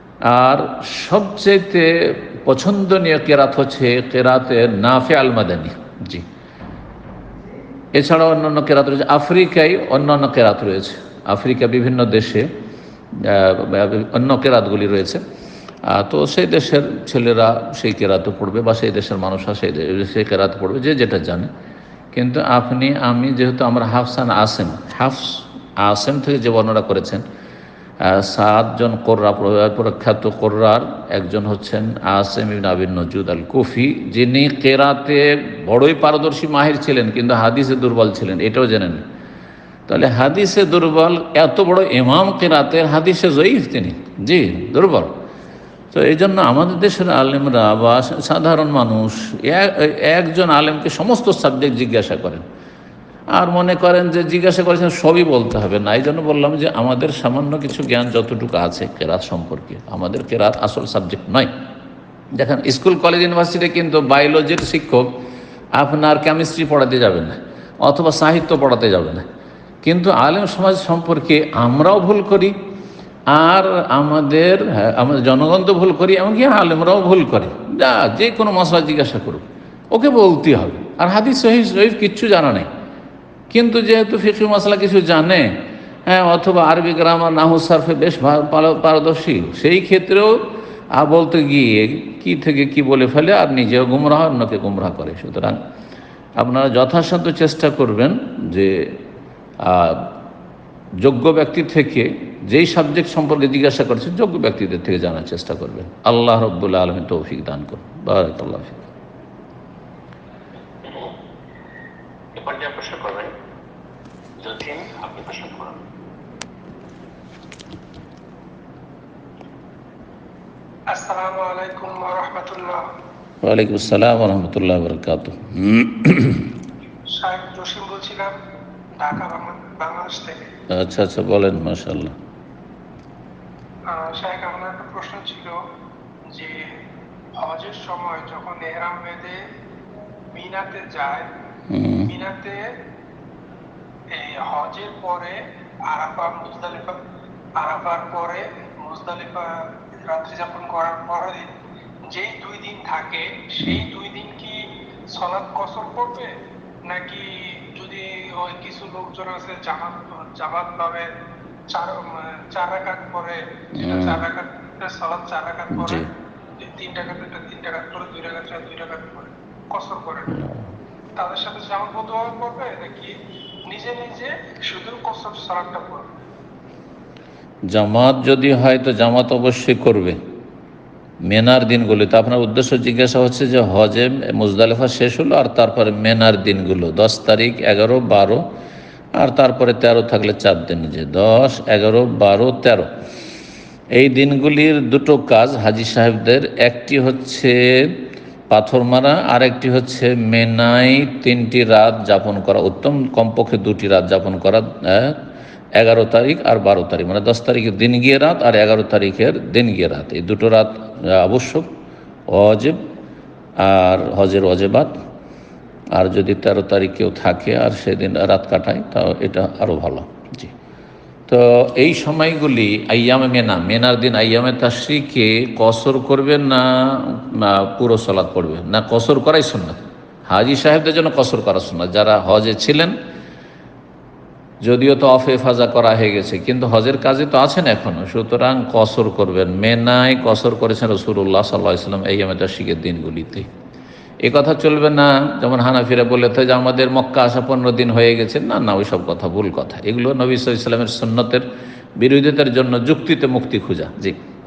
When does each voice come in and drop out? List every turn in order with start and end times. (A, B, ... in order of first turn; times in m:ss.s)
0:00.2-0:06.2 A
0:07.9-0:12.5 A
0:13.1-0:15.2 A
0:15.9-0:21.5 A
0:22.1-0:27.2 A
0:28.0-0:39.0 A
0:39.9-0:45.1 A
0:45.9-0:52.4 A
0:53.3-1:01.5 A
1:02.4-1:05.1 A
1:05.8-1:09.2 A
1:09.8-1:12.5 A
1:13.3-1:22.7 A
1:23.5-1:35.6 A
1:36.4-1:39.0 A
1:39.6-1:40.2 A
1:41.0-1:48.8 A
1:50.8-1:51.1 B
1:52.4-1:53.3 B
1:54.4-1:55.8 B
2:00.9-2:02.8 C
2:03.4-2:06.5 A
2:07.2-2:08.3 C
2:09.0-2:10.5 C
2:10.7-2:12.1 A
2:13.9-2:15.6 C
2:16.3-2:16.6 C
2:17.4-2:19.4 C
2:20.3-2:21.3 C
2:21.7-2:22.1 A
2:22.1-2:22.6 C
2:24.1-2:25.4 C
2:25.9-2:27.0 C
2:27.6-2:31.5 C
2:32.1-2:36.3 C
2:36.9-2:41.1 C
2:41.7-2:46.1 C
2:43.8-2:44.2 A
2:45.7-2:46.1 A
2:46.6-2:50.4 C
2:50.3-2:50.7 A
2:51.2-2:53.1 C
2:53.7-2:56.1 C
2:57.7-3:00.2 A
3:01.2-3:08.4 A
3:09.2-3:12.9 A
3:14.0-3:25.2 A
3:25.8-3:31.7 A
3:32.3-3:32.8 A
3:33.6-3:35.0 A
3:35.9-3:40.5 A
3:41.3-3:52.9 A
3:54.6-4:03.5 A
4:04.2-4:11.5 A
4:12.0-4:14.2 A